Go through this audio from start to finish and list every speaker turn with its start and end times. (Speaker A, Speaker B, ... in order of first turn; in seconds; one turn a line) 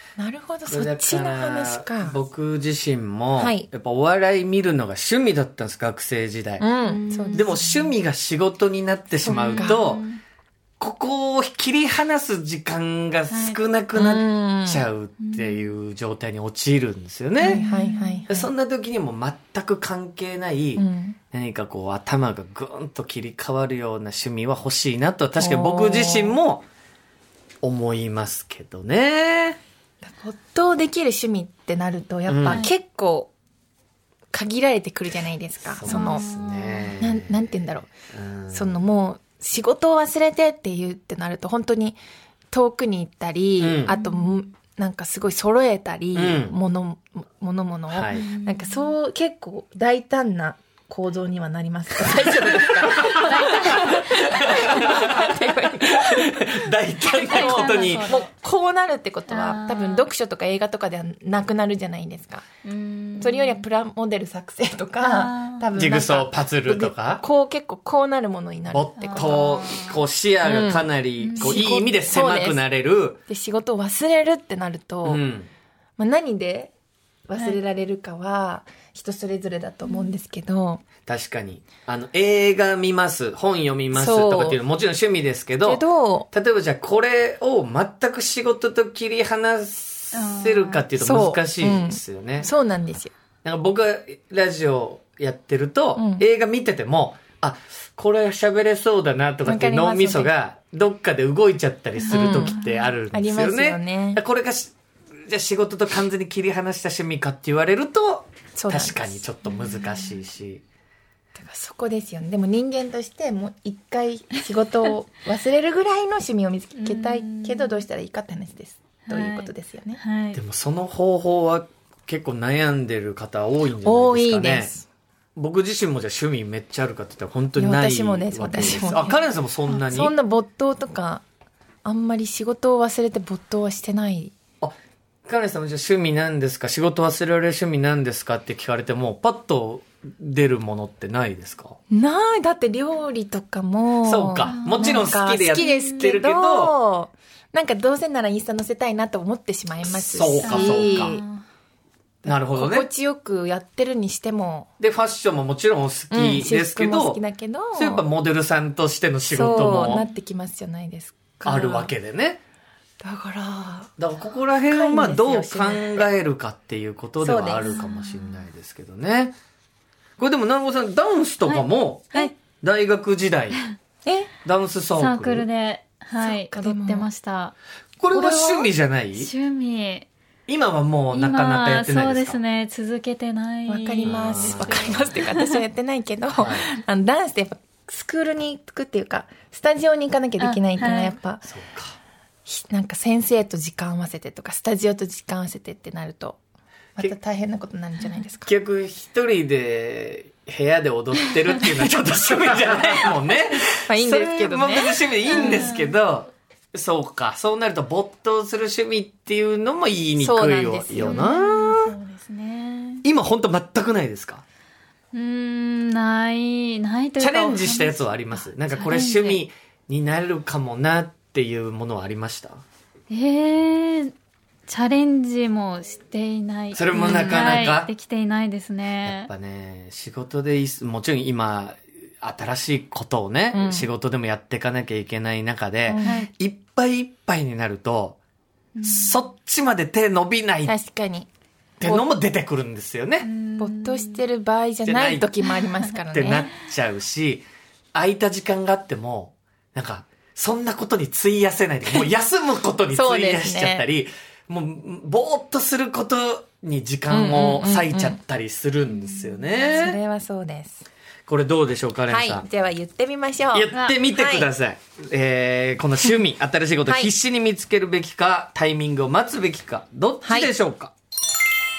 Speaker A: 0.2-2.2
Speaker B: 0.7-6.6
Speaker A: 3.4-3.7
Speaker A: 6.6-7.9
Speaker C: 6.8-7.5
Speaker B: 7.3-10.0
Speaker A: 9.2-9.8
Speaker C: 9.2-10.2
Speaker B: 10.8-17.6
Speaker C: 13.3-13.6
Speaker A: 13.9-14.9
Speaker C: 15.2-15.7
Speaker A: 17.4-18.5
Speaker C: 17.4-18.2
Speaker B: 18.3-26.7
Speaker A: 20.8-21.2
Speaker A: 25.4-26.4
Speaker B: 27.6-29.6
Speaker A: 30.0-33.3
Speaker B: 32.3-32.7
Speaker C: 32.5-32.7
Speaker A: 34.3-36.2
Speaker B: 35.7-37.3
Speaker C: 35.8-37.0
Speaker A: 37.0-37.9
Speaker B: 38.1-38.8
Speaker A: 38.5-42.0
Speaker A: 42.5-56.4
Speaker B: 43.6-43.9
Speaker C: 43.9-44.4
Speaker B: 46.1-46.6
Speaker B: 47.9-48.3
Speaker C: 48.1-48.9
Speaker B: 53.0-58.1
Speaker C: 53.1-55.0
Speaker A: 57.1-62.4
Speaker C: 57.2-58.3
Speaker C: 59.3-60.1
Speaker C: 62.6-63.6
Speaker A: 63.2-69.7
Speaker C: 65.0-65.7
Speaker B: 65.7-67.2
Speaker B: 68.7-73.2
Speaker C: 69.0-70.0
Speaker A: 70.4-72.6
Speaker C: 71.2-71.6
Speaker A: 73.3-75.2
Speaker B: 75.0-75.5
Speaker A: 76.0-76.7
Speaker A: 77.3-80.8
Speaker C: 79.8-80.2
Speaker B: 81.1-92.5
Speaker A: 83.9-84.6
Speaker A: 85.6-86.3
Speaker C: 90.1-90.8
Speaker A: 91.0-93.1
Speaker B: 93.4-104.7
Speaker A: 96.0-96.3
Speaker A: 99.4-100.3
Speaker C: 102.0-102.9
Speaker A: 102.0-102.6
Speaker A: 103.1-104.2
Speaker B: 105.3-110.6
Speaker A: 108.6-109.3
Speaker C: 109.5-110.2
Speaker A: 111.3-120.0
Speaker C: 116.8-117.8
Speaker C: 119.1-120.4
Speaker B: 120.3-124.7
Speaker A: 123.8-124.8
Speaker B: 125.3-130.2
Speaker A: 127.6-129.2
Speaker A: 129.7-131.2
Speaker A: 131.8-134.3
Speaker B: 134.6-141.8
Speaker A: 141.9-151.2
Speaker B: 144.0-146.7
Speaker C: 144.4-146.1
Speaker B: 149.9-151.2
Speaker C: 150.4-151.4
Speaker A: 152.2-154.7
Speaker B: 152.3-152.9
Speaker B: 154.8-157.2
Speaker A: 156.1-158.1
Speaker B: 157.7-160.0
Speaker A: 159.3-161.9
Speaker C: 159.5-160.1
Speaker B: 161.4-162.4
Speaker A: 163.0-163.9
Speaker B: 164.0-169.3
Speaker A: 164.7-166.1
Speaker A: 167.2-167.9
Speaker B: 170.2-173.6
Speaker C: 171.4-172.3
Speaker A: 174.1-174.3
Speaker B: 174.4-175.5
Speaker C: 174.9-177.6
Speaker A: 176.2-177.1
Speaker B: 178.0-179.3
Speaker A: 178.1-178.7
Speaker C: 179.2-180.1
Speaker B: 180.5-182.4
Speaker C: 181.1-185.6
Speaker A: 183.7-191.5
Speaker B: 184.0-185.1
Speaker B: 186.4-186.7
Speaker C: 190.4-191.2
Speaker B: 191.4-192.0
Speaker A: 192.4-196.4
Speaker A: 196.9-198.5
Speaker B: 198.5-211.9
Speaker A: 203.9-205.7
Speaker C: 205.3-205.9
Speaker A: 210.2-211.3
Speaker C: 210.9-213.1
Speaker B: 213.0-214.4
Speaker C: 215.1-219.4
Speaker B: 217.2-222.6
Speaker C: 223.1-224.1
Speaker C: 224.7-229.3
Speaker B: 226.7-227.9
Speaker B: 229.0-238.2
Speaker A: 233.5-233.9
Speaker A: 235.8-236.3
Speaker C: 236.0-236.3
Speaker C: 238.7-239.2
Speaker B: 238.8-240.7
Speaker A: 240.7-241.3
Speaker B: 241.8-243.3
Speaker A: 241.8-242.1
Speaker C: 243.2-244.2
Speaker A: 243.6-246.5
Speaker B: 244.8-245.3
Speaker B: 246.1-260.0
Speaker A: 252.9-253.9
Speaker A: 257.1-258.2
Speaker C: 259.1-259.6
Speaker A: 259.7-260.9
Speaker B: 261.3-262.4
Speaker A: 262.1-264.5
Speaker B: 263.5-270.9
Speaker C: 263.7-264.0
Speaker A: 266.9-267.1
Speaker A: 270.2-270.5